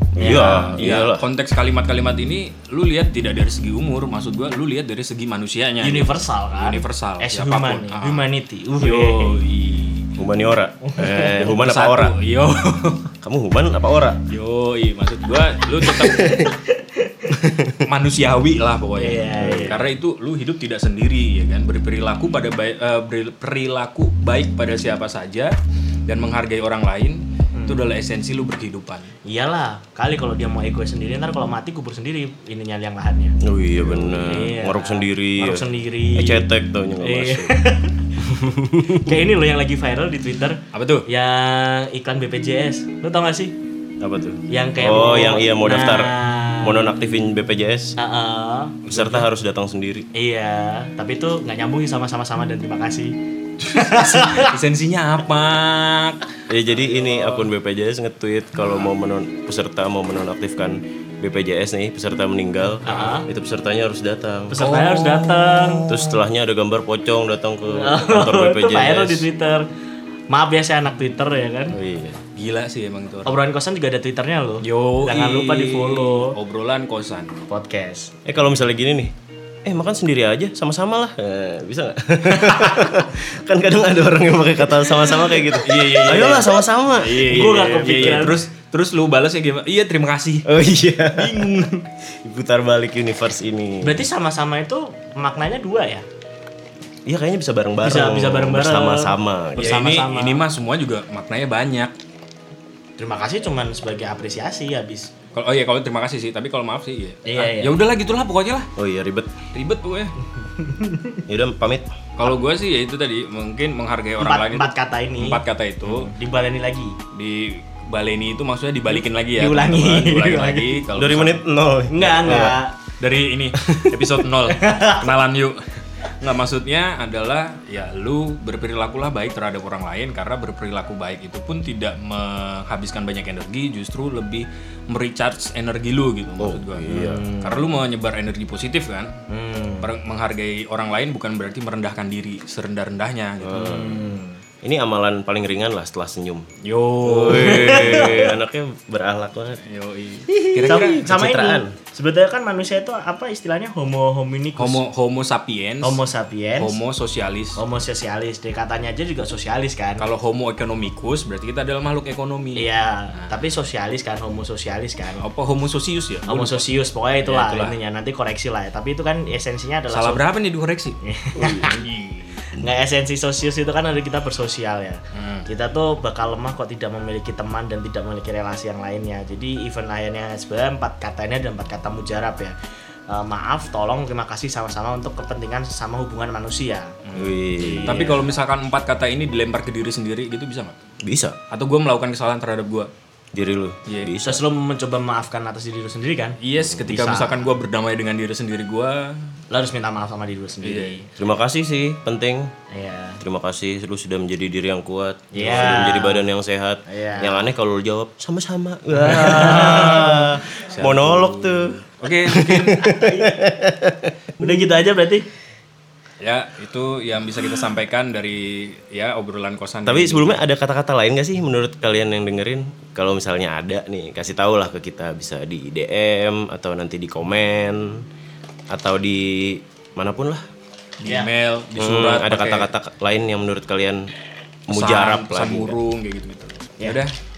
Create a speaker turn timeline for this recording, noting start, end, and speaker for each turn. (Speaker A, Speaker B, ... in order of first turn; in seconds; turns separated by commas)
Speaker A: 0.2-0.7, Speaker B: 0.2-1.3, Speaker C: 0.2-8.2, Speaker A: 5.8-9.4, Speaker C: 8.8-10.1, Speaker B: 10.2-12.2, Speaker A: 10.9-11.3, Speaker C: 11.4-13.1, Speaker B: 13.2-14.2, Speaker C: 14.2-16.5, Speaker A: 15.8-17.4, Speaker C: 17.8-25.6, Speaker A: 19.0-19.9, Speaker B: 19.4-19.9, Speaker C: 26.1-29.1, Speaker A: 27.5-27.9, Speaker A: 29.3-33.4, Speaker B: 33.4-37.5, Speaker C: 33.8-34.5, Speaker A: 34.2-36.5, Speaker A: 37.0-38.1, Speaker B: 38.2-39.0, Speaker A: 38.9-43.5, Speaker C: 40.7-41.1, Speaker B: 44.0-48.0, Speaker A: 44.5-46.9, Speaker A: 48.0-48.8, Speaker C: 48.8-49.3, Speaker B: 48.9-50.1, Speaker A: 50.1-54.5, Speaker C: 53.6-56.2, Speaker B: 56.5-69.3, Speaker C: 56.8-57.5, Speaker C: 58.6-58.9, Speaker A: 62.9-63.3, Speaker C: 62.9-63.1, Speaker A: 64.5-66.0, Speaker A: 67.7-69.6, Speaker A: 70.3-71.8, Speaker B: 71.7-72.2, Speaker C: 72.3-73.4, Speaker A: 73.2-76.4, Speaker C: 74.6-77.3, Speaker A: 77.5-78.1, Speaker B: 78.2-79.1, Speaker B: 79.7-88.3, Speaker A: 82.4-82.9, Speaker C: 85.5-90.5, Speaker A: 87.3-88.5, Speaker B: 90.5-94.0, Speaker C: 91.1-91.8, Speaker A: 93.8-96.0, Speaker B: 97.1-99.8, Speaker A: 97.8-100.4, Speaker C: 99.6-101.9, Speaker A: 103.0-105.1, Speaker C: 105.3-108.7, Speaker A: 107.2-107.8, Speaker B: 108.8-109.3, Speaker C: 109.5-110.2, Speaker A: 110.6-111.2, Speaker B: 111.3-111.9, Speaker C: 112.2-116.1, Speaker A: 114.2-117.0, Speaker C: 117.1-121.4, Speaker A: 118.9-120.8, Speaker B: 120.9-122.6, Speaker A: 121.9-122.8, Speaker C: 123.0-139.1, Speaker A: 124.5-125.1, Speaker B: 136.4-137.3, Speaker A: 136.9-137.7, Speaker A: 139.3-139.9, Speaker C: 139.8-143.6, Speaker B: 143.4-144.1, Speaker A: 143.5-144.4, Speaker B: 144.6-146.5, Speaker C: 146.6-148.3, Speaker B: 147.0-149.6, Speaker A: 147.3-148.3, Speaker C: 149.7-151.1, Speaker B: 150.3-151.8, Speaker A: 150.7-154.8, Speaker C: 154.6-156.0, Speaker A: 155.8-156.8, Speaker C: 156.6-157.6, Speaker A: 157.6-160.1, Speaker C: 160.0-162.7, Speaker A: 162.6-165.2, Speaker C: 165.2-166.7, Speaker A: 166.3-170.2, Speaker C: 167.2-167.8, Speaker C: 169.9-171.0, Speaker A: 171.1-171.7, Speaker B: 171.4-171.6, Speaker C: 171.6-172.4, Speaker A: 172.5-182.6, Speaker C: 175.1-175.4, Speaker A: 183.1-186.9, Speaker C: 187.1-190.8, Speaker B: 187.2-188.1, Speaker A: 187.6-188.3, Speaker B: 191.0-191.4, Speaker C: 191.5-192.9, Speaker B: 193.3-194.4, Speaker C: 193.9-194.1, Speaker A: 194.2-196.4, Speaker C: 196.4-199.2, Speaker A: 196.9-197.5, Speaker A: 199.5-201.1, Speaker C: 200.6-201.0, Speaker B: 201.2-202.5, Speaker A: 202.7-203.2, Speaker B: 203.2-211.8, Speaker A: 205.3-206.2, Speaker A: 206.9-207.5, Speaker A: 209.1-210.3, Speaker C: 209.1-212.9, Speaker B: 212.3-214.6, Speaker A: 212.8-213.5, Speaker A: 214.4-215.3, Speaker C: 216.2-220.4, Speaker B: 219.8-228.1, Speaker B: 228.7-230.4, Speaker C: 231.0-232.7, Speaker A: 231.1-231.3, Speaker B: 231.8-234.1, Speaker B: 234.7-235.8, Speaker C: 234.7-237.1